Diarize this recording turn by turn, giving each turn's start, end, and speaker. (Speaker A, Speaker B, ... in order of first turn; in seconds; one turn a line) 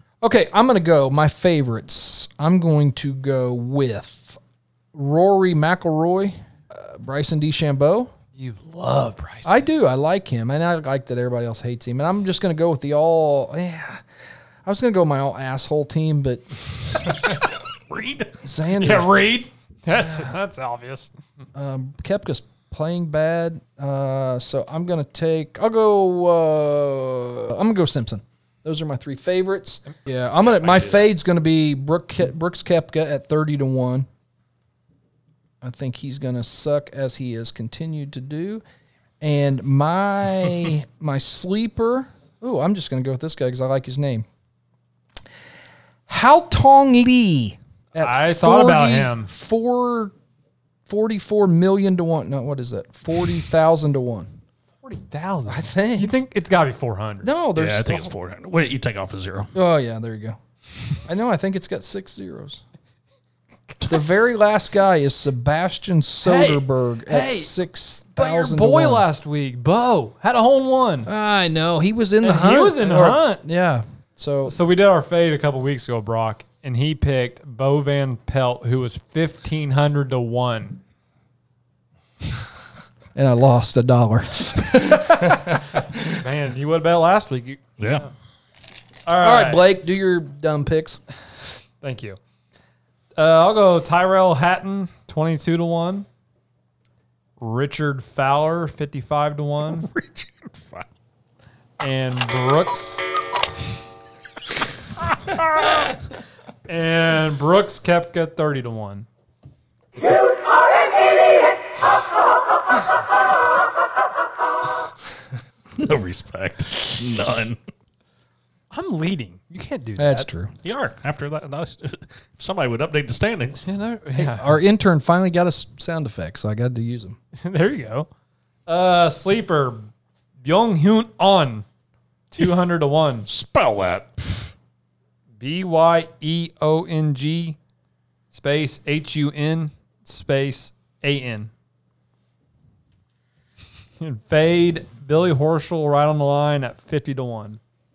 Speaker A: 0.2-4.4
Speaker A: 4.9-8.1
Speaker B: 8.4-9.6
Speaker A: 9.4-14.0
Speaker A: 14.7-16.7
Speaker C: 17.9-18.4
Speaker A: 18.4-19.1
Speaker B: 18.8-21.1
Speaker A: 21.6-34.1
Speaker C: 30.6-31.1
Speaker A: 35.6-38.6
Speaker A: 39.2-44.3
Speaker A: 46.1-50.1
Speaker B: 48.0-49.3
Speaker A: 50.9-54.3
Speaker B: 54.8-57.3
Speaker A: 55.5-56.1
Speaker A: 57.2-58.1
Speaker C: 57.6-59.5
Speaker A: 59.5-60.4
Speaker A: 61.1-62.6
Speaker A: 63.9-69.0
Speaker B: 66.2-67.6
Speaker B: 68.2-71.1
Speaker A: 71.1-74.5
Speaker B: 72.2-73.4
Speaker B: 74.5-80.8
Speaker A: 83.2-85.4
Speaker B: 86.1-88.1
Speaker C: 87.8-88.1
Speaker B: 89.1-89.7
Speaker A: 89.2-91.0
Speaker B: 91.8-92.2
Speaker B: 93.2-96.1
Speaker B: 97.4-99.9
Speaker C: 99.8-100.9
Speaker B: 101.8-103.1
Speaker B: 106.7-109.1
Speaker C: 115.8-117.6
Speaker B: 118.7-120.3
Speaker A: 120.0-120.5
Speaker C: 120.6-123.7
Speaker B: 123.7-124.6
Speaker A: 124.2-127.2
Speaker B: 127.4-128.1
Speaker B: 128.7-129.9
Speaker B: 130.4-131.7
Speaker B: 132.3-133.3
Speaker C: 133.3-134.4
Speaker B: 135.4-137.6
Speaker B: 138.3-141.5
Speaker B: 144.0-147.6